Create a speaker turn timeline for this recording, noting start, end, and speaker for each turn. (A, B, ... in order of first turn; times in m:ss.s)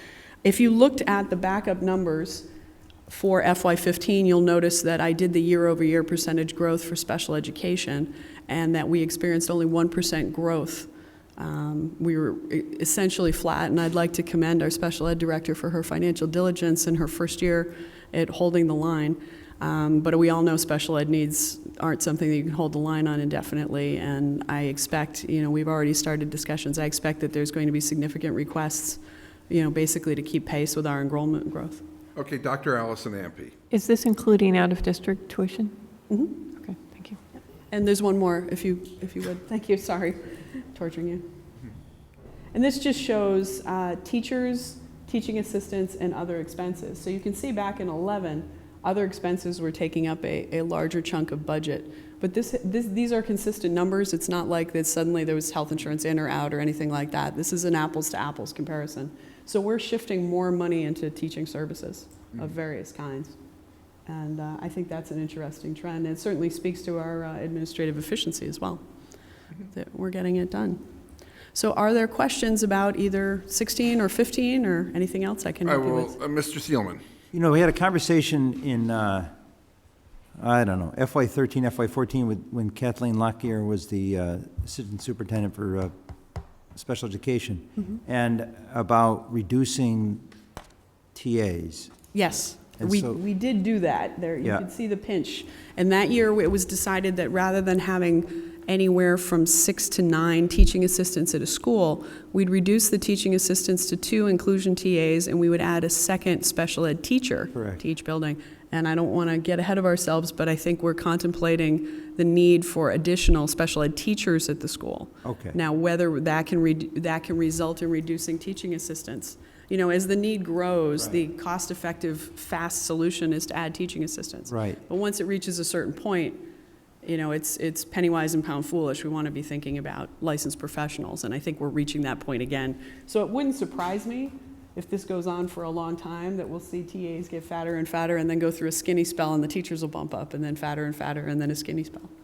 0:00.4-0:02.5 A
0:03.1-0:31.8 A
0:32.2-0:33.5 B
0:33.7-0:35.7 C
0:36.1-0:36.4 A
0:36.6-0:37.2 C
0:37.7-0:41.2 A
0:42.5-1:03.4 A
1:04.0-1:08.8 A
1:09.7-1:10.8 A
1:11.5-1:16.2 A
1:15.6-1:17.0 B
1:17.3-1:19.3 D
1:20.4-1:25.9 D
1:26.7-1:30.2 D
1:31.1-1:31.9 D
1:32.1-2:06.4 A
1:32.8-1:33.2 D
1:47.5-1:47.8 D
1:55.2-1:55.6 D
2:04.5-2:04.8 D
2:07.0-2:22.1 A